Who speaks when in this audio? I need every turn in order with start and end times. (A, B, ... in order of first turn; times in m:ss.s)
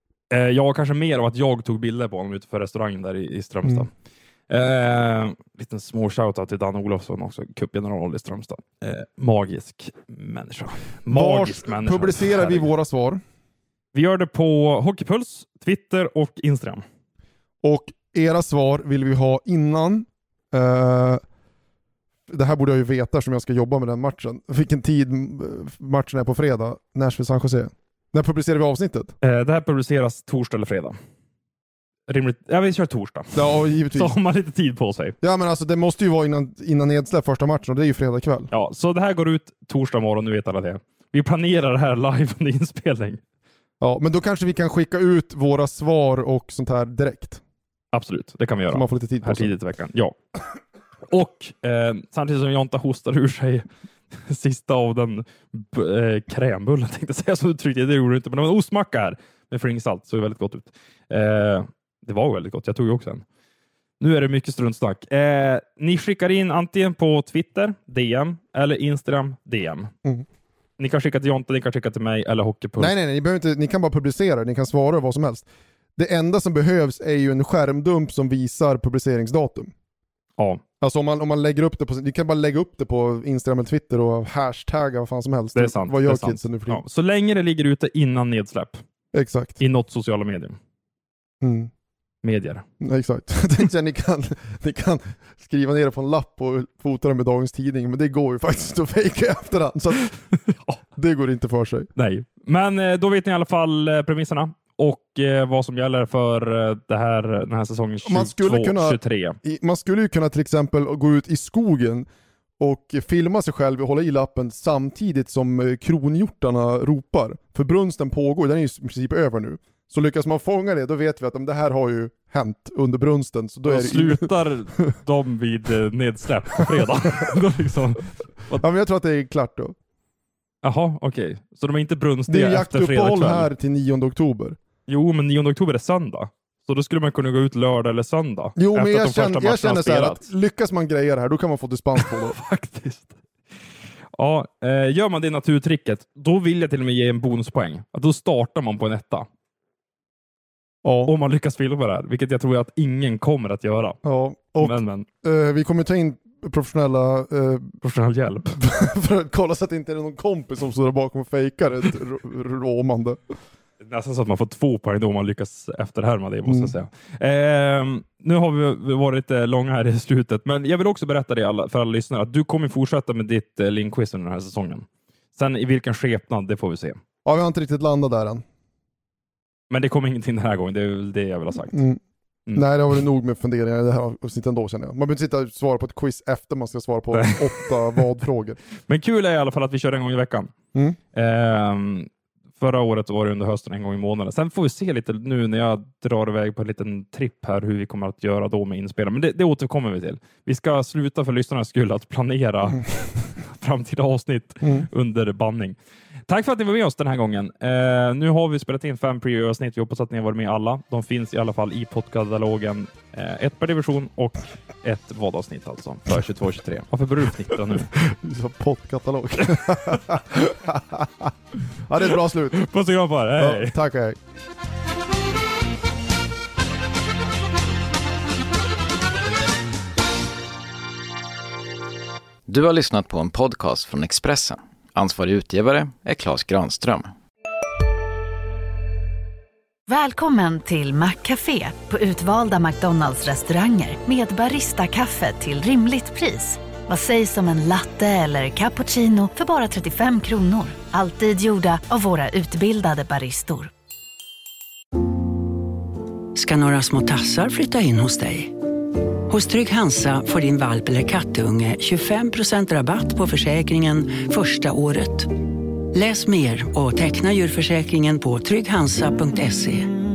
0:00.3-0:03.9 A
0:04.5-0:12.7 A
0:11.1-0:13.2 B
0:13.9-0:16.8 A
0:17.6-0:21.2 B
0:22.3-0:29.1 B
0:29.2-0:31.0 A
0:32.1-0:35.2 A
0:33.3-0:34.2 B
0:35.2-0:38.5 B
0:38.5-0:43.2 A
0:43.8-0:47.4 B
0:47.9-0:50.2 A
0:48.7-0:49.5 B
0:51.1-1:03.2 A
1:04.0-1:09.9 A
1:10.8-1:12.9 A
1:12.8-1:19.7 B
1:20.8-1:26.8 B
1:25.6-1:28.8 A
1:29.1-1:29.6 B
1:29.6-1:30.6 A
1:31.4-1:31.7 B
1:32.2-1:32.6 A
1:32.8-1:40.2 B
1:40.5-1:40.8 A
1:41.0-1:41.9 B
1:42.0-1:49.4 A
1:48.0-1:52.1 B
1:52.6-2:04.3 B
2:03.7-2:08.6 A
2:08.5-2:09.8 B
2:10.6-2:13.5 A
2:12.3-2:14.6 B
2:14.9-2:20.3 A
2:18.6-2:22.4 B
2:22.0-2:23.2 A
2:24.2-2:29.3 A
2:30.8-2:31.1 B
2:31.1-2:34.0 A
2:34.0-2:37.8 B
2:34.6-2:35.1 A
2:37.8-2:38.6 A
2:38.5-2:43.4 B
2:43.8-2:57.0 A
2:46.5-2:46.8 B
2:57.2-2:58.4 B
2:59.7-3:01.8 A
3:01.6-3:02.0 B
3:02.5-3:08.6 B
3:07.1-3:08.0 A
3:08.9-3:10.5 A
3:11.1-3:25.8 A
3:26.3-3:37.9 A
3:38.0-3:41.3 B
3:41.8-3:42.6 B
3:42.5-3:43.8 A
3:43.4-3:44.2 B
3:52.5-3:57.1 C
3:59.9-4:13.7 D
4:16.4-4:18.5 E
4:19.3-4:25.3 E
4:25.9-4:29.9 E